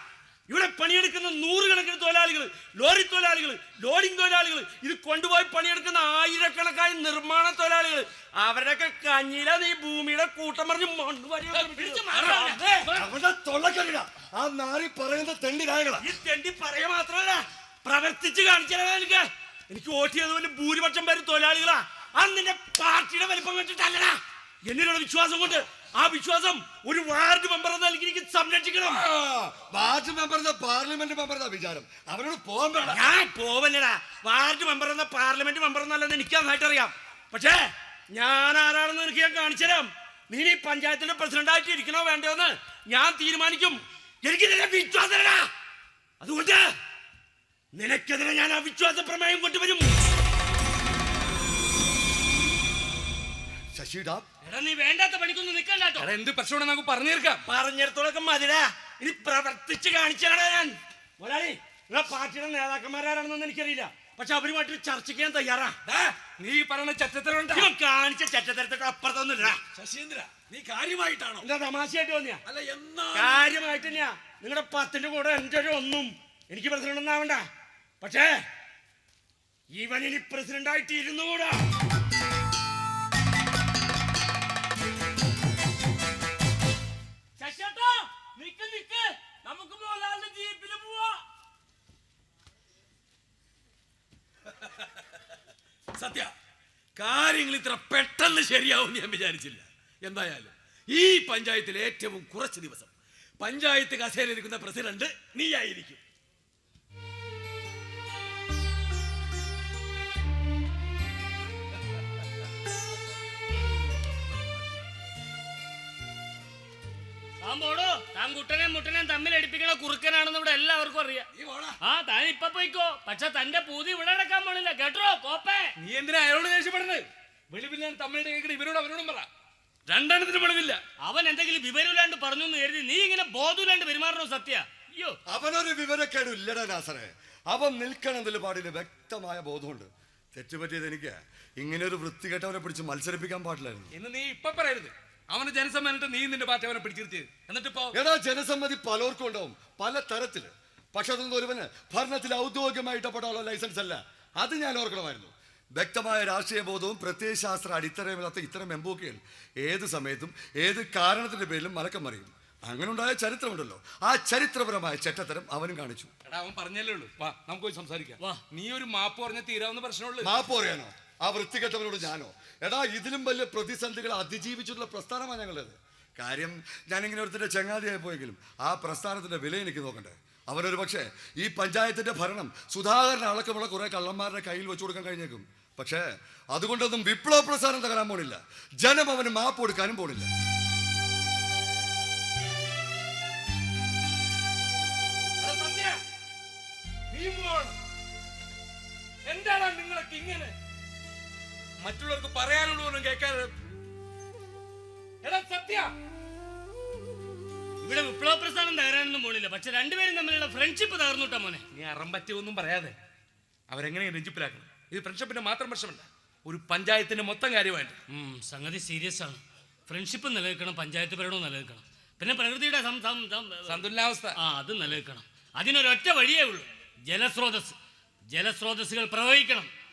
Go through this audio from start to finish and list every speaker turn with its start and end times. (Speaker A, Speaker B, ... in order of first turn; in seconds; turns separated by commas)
Speaker A: 0.5-12.9, Speaker B: 11.6-13.1, Speaker C: 12.1-12.4, Speaker D: 12.9-16.0, Speaker A: 16.0-29.0, Speaker D: 28.8-33.1, Speaker A: 32.9-45.5, Speaker A: 46.2-46.7, Speaker A: 47.7-49.9, Speaker D: 53.7-54.3, Speaker B: 54.4-56.1, Speaker C: 56.0-57.4, Speaker A: 57.4-65.7, Speaker E: 65.8-66.2, Speaker C: 66.3-67.7, Speaker A: 67.5-69.6, Speaker E: 69.5-71.5, Speaker A: 71.4-72.4, Speaker E: 72.5-73.5, Speaker A: 73.1-77.4, Speaker A: 78.0-78.3, Speaker A: 79.7-81.6, Speaker B: 87.4-89.3, Speaker B: 90.5-91.1, Speaker E: 94.5-95.0, Speaker E: 95.9-96.3, Speaker E: 97.0-106.0, Speaker B: 117.4-121.3, Speaker E: 121.3-121.8, Speaker B: 121.8-125.7, Speaker C: 125.8-129.3, Speaker C: 129.9-130.8, Speaker B: 131.0-135.2, Speaker D: 135.2-143.9, Speaker C: 143.9-147.9, Speaker D: 147.9-166.1, Speaker C: 166.2-170.3, Speaker D: 170.2-190.3, Speaker C: 195.4-196.0, Speaker C: 197.1-197.8, Speaker C: 199.2-200.5, Speaker C: 201.8-203.5, Speaker C: 205.2-205.9, Speaker B: 207.8-211.6, Speaker C: 211.7-212.9, Speaker C: 213.7-218.0, Speaker B: 218.1-227.8, Speaker C: 223.7-224.4, Speaker B: 228.3-229.7